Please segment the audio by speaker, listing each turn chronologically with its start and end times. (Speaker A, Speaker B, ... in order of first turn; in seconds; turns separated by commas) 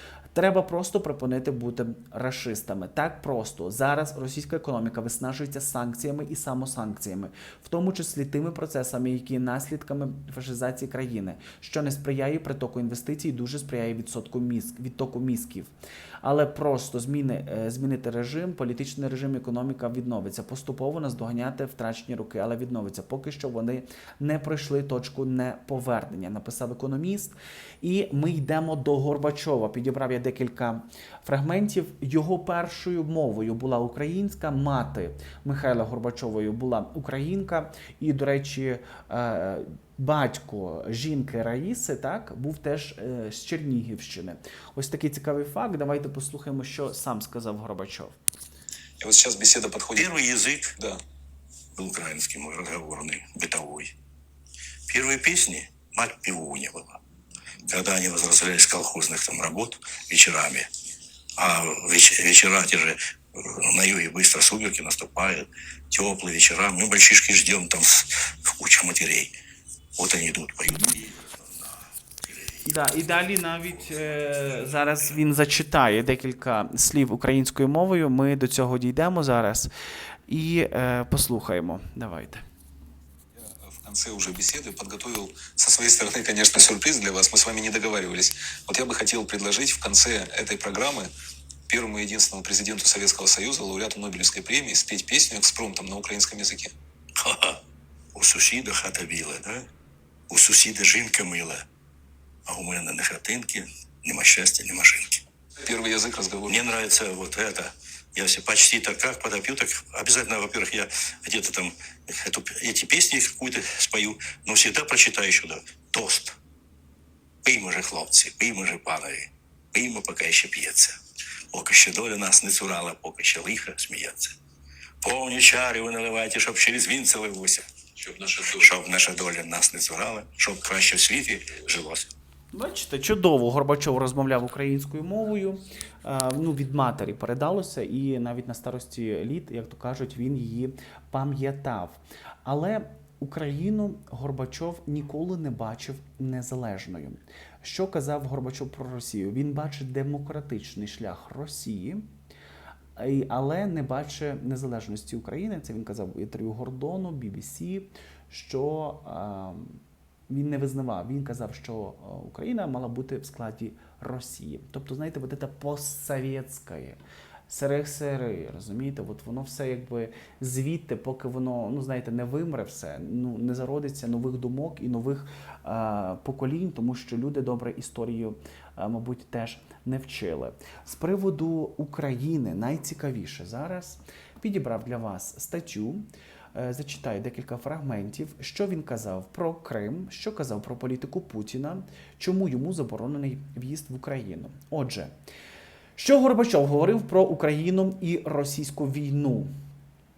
Speaker A: 0.3-48.2, Speaker B: 49.0-50.1, Speaker C: 49.9-50.8, Speaker C: 51.7-53.9, Speaker C: 54.9-57.0, Speaker C: 57.6-60.7, Speaker C: 61.4-69.3, Speaker C: 70.0-73.1, Speaker A: 72.6-79.7, Speaker C: 73.7-74.3, Speaker A: 80.3-82.4, Speaker B: 83.3-91.1, Speaker B: 91.7-96.7, Speaker C: 97.2-97.6, Speaker C: 98.1-99.7, Speaker C: 100.3-101.6, Speaker C: 102.5-105.2, Speaker B: 105.6-106.6, Speaker C: 106.5-116.4, Speaker C: 117.4-121.0, Speaker C: 121.5-124.3, Speaker C: 125.0-132.1, Speaker A: 132.5-152.1, Speaker A: 152.9-195.1, Speaker A: 195.9-199.5